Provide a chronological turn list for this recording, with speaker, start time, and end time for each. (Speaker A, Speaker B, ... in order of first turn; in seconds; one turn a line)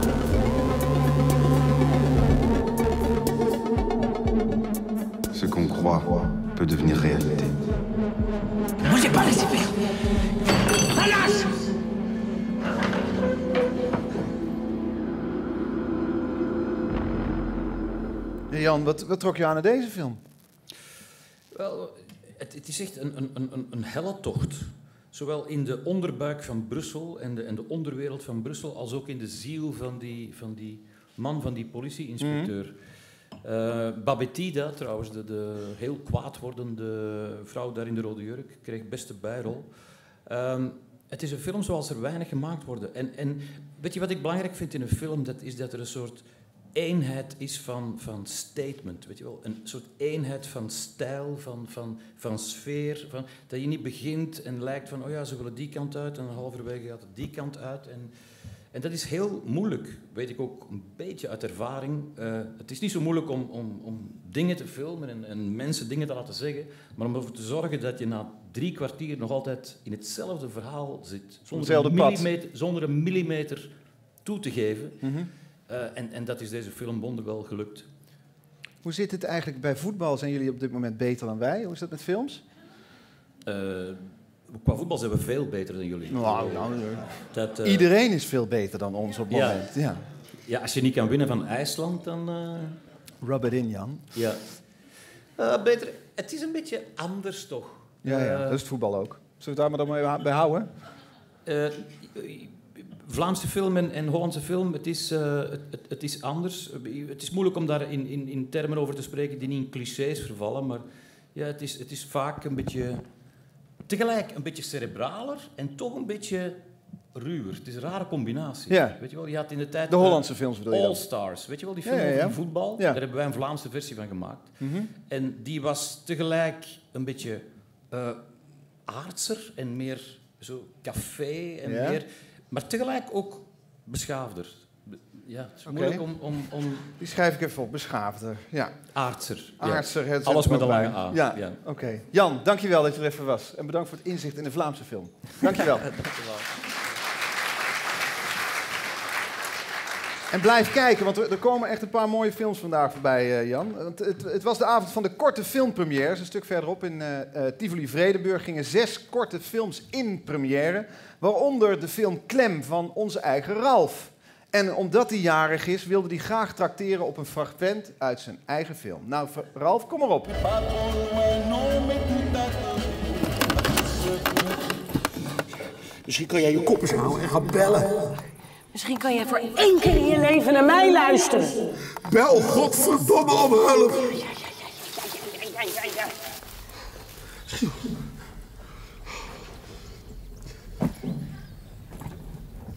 Speaker A: 5.3-7.6
Speaker B: 18.5-20.2
Speaker C: 21.5-32.8
Speaker B: 32.2-32.5
Speaker C: 33.4-39.7
Speaker C: 40.2-58.1
Speaker C: 58.7-73.7
Speaker B: 71.5-72.3
Speaker C: 74.2-75.0
Speaker B: 75.0-75.3
Speaker C: 75.7-77.9
Speaker B: 78.8-82.4
Speaker C: 83.5-86.7
Speaker B: 86.1-90.0
Speaker C: 87.3-87.9
Speaker C: 89.3-89.7
Speaker C: 90.4-92.8
Speaker B: 93.2-94.1
Speaker C: 94.1-94.5
Speaker C: 95.4-98.6
Speaker B: 98.0-100.7
Speaker C: 101.5-113.0
Speaker C: 113.9-116.6
Speaker C: 117.1-128.2
Speaker B: 118.7-119.0
Speaker B: 119.9-121.0
Speaker B: 121.8-123.0
Speaker B: 124.6-124.9
Speaker C: 128.8-136.9
Speaker B: 131.6-132.0
Speaker B: 135.7-136.0
Speaker B: 137.0-138.8
Speaker C: 138.9-141.6
Speaker B: 139.6-145.9
Speaker C: 145.5-146.5
Speaker B: 150.3-170.3
Speaker A: 170.6-172.7
Speaker A: 176.1-178.0
Speaker D: 178.7-181.6
Speaker A: 182.1-184.1
Speaker D: 184.8-186.0